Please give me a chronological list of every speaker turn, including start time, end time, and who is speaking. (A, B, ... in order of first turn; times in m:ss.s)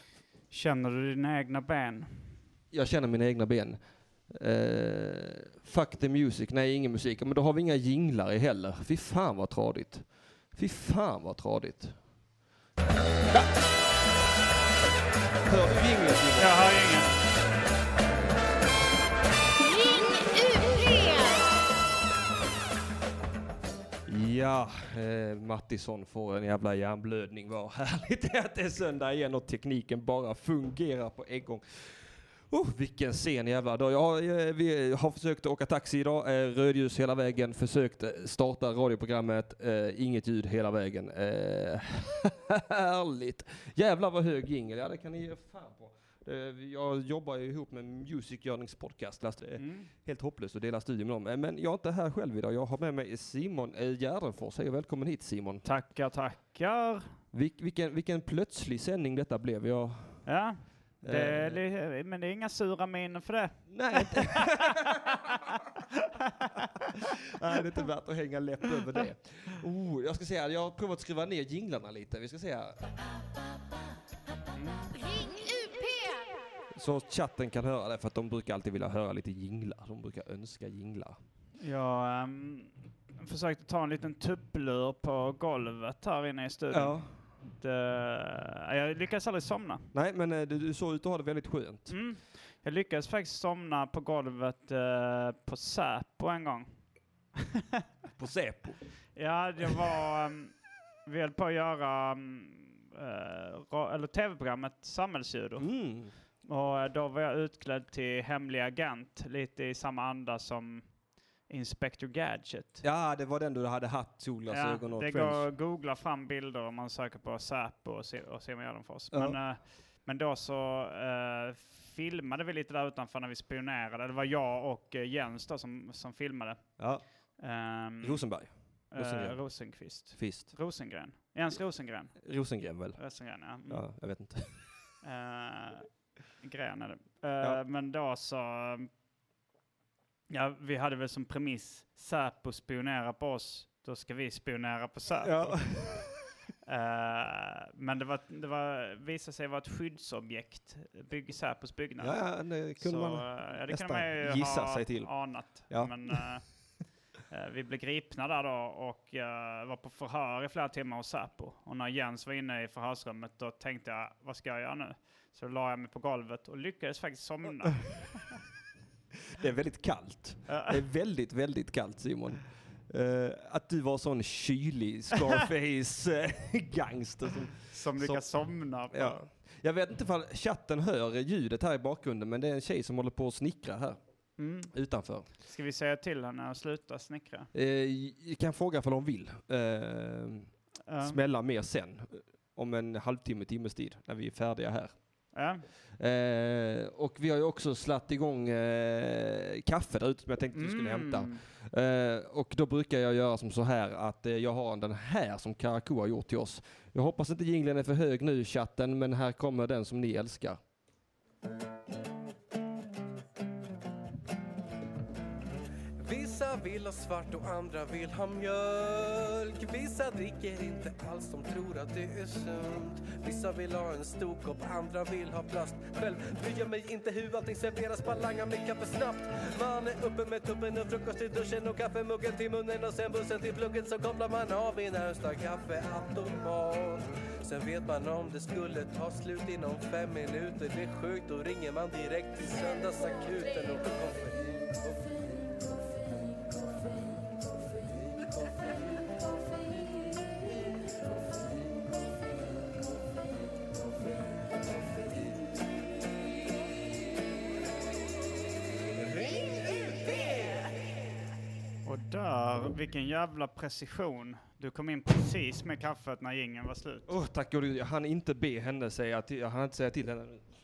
0:00.5-0:02.2 A
0:02.7-0:12.0 B
0:15.4-0:16.7 B
0:16.4-0:17.1 A
0:19.7-0:21.4 C
0:24.1-0:55.6 B
0:49.6-0:49.9 A
0:55.6-0:57.1 A
0:57.3-1:00.3 B
1:00.3-1:04.9 A
1:01.0-1:01.6 B
1:03.7-1:05.5 B
1:06.2-1:06.5 A
1:07.3-1:12.8 B
1:14.6-1:15.0 A
1:15.6-1:15.9 C
1:16.7-1:21.2 B
1:21.6-1:29.8 A
1:26.7-1:27.1 B
1:29.9-1:31.9 B
1:31.9-1:36.7 A
1:37.4-1:37.8 A
1:38.2-1:38.8 B
1:39.2-1:40.5 A
1:41.0-1:45.7 A
1:45.6-1:46.1 B
1:46.4-1:50.8 A
1:51.5-1:52.8 A
1:52.8-1:55.4 B
1:54.5-2:06.8 A
1:59.1-1:59.4 B
2:06.8-2:07.0 B
2:07.4-2:08.2 A
2:08.0-2:09.4 B
2:08.9-2:12.3 A
2:10.1-2:10.5 B
2:12.2-2:13.0 B
2:13.0-2:13.8 A
2:13.7-2:14.6 B
2:15.0-2:15.9 A
2:16.4-2:18.9 A
2:20.3-2:25.8 A
2:25.2-2:26.2 B
2:26.7-2:36.4 A
2:32.0-2:35.1 B
2:35.7-2:36.2 B
2:37.3-2:48.2 A
2:49.3-2:58.2 B
2:50.5-2:50.8 A
2:57.7-2:59.2 A
2:58.9-3:04.0 B
3:04.4-3:04.7 A
3:04.7-3:05.3 B
3:05.4-3:07.5 A
3:07.5-3:10.5 B
3:10.9-3:11.2 A
3:11.0-3:15.0 B
3:15.3-3:15.6 A
3:16.0-3:30.6 B
3:20.5-3:21.4 A
3:36.0-4:05.4 D
4:21.8-4:27.1 A
4:27.1-4:30.4 B